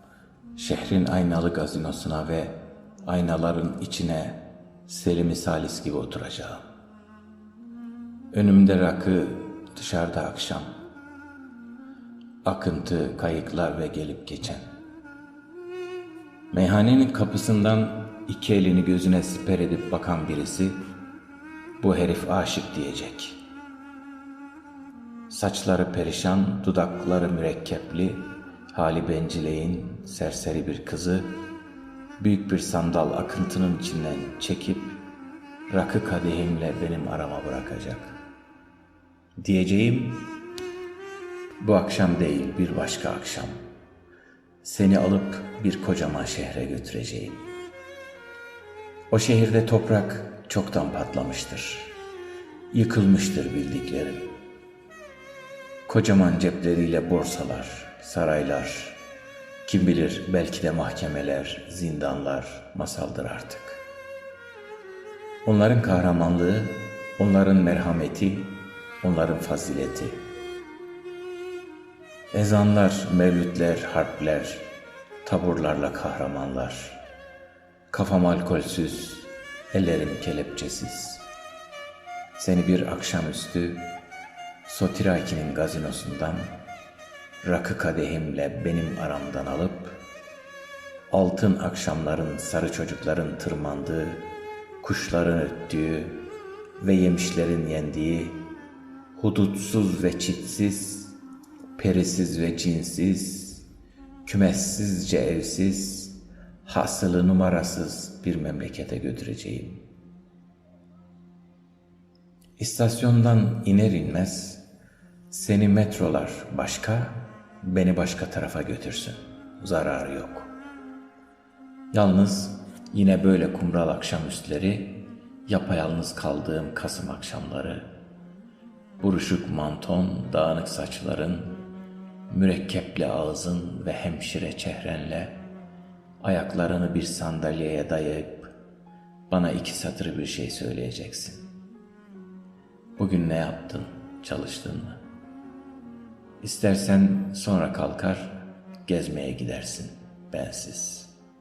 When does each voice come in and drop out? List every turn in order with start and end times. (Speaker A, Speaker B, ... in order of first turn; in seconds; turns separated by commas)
Speaker A: 0.6-6.6, Speaker A: 8.3-10.7, Speaker A: 12.4-14.7, Speaker A: 16.5-20.8, Speaker A: 21.8-23.4, Speaker A: 25.3-31.3, Speaker A: 32.2-35.0, Speaker A: 35.7-38.2, Speaker A: 39.4-40.2, Speaker A: 41.6-43.6, Speaker A: 44.6-47.5, Speaker A: 49.1-51.9, Speaker A: 52.7-54.3, Speaker A: 55.9-59.0, Speaker A: 59.6-63.8, Speaker A: 65.4-70.2, Speaker A: 72.3-74.7, Speaker A: 75.2-77.0, Speaker A: 77.9-81.3, Speaker A: 82.4-83.8, Speaker A: 84.7-86.5, Speaker A: 87.4-90.0, Speaker A: 91.1-94.2, Speaker A: 94.8-96.2, Speaker A: 96.8-98.4, Speaker A: 99.1-101.2, Speaker A: 101.8-103.7, Speaker A: 104.2-109.8, Speaker A: 112.6-114.6, Speaker A: 115.3-120.5, Speaker A: 121.9-124.9, Speaker A: 125.5-127.9, Speaker A: 129.0-131.5, Speaker A: 132.3-135.4, Speaker A: 136.2-138.5, Speaker A: 139.3-141.5, Speaker A: 143.0-145.0, Speaker A: 146.4-151.1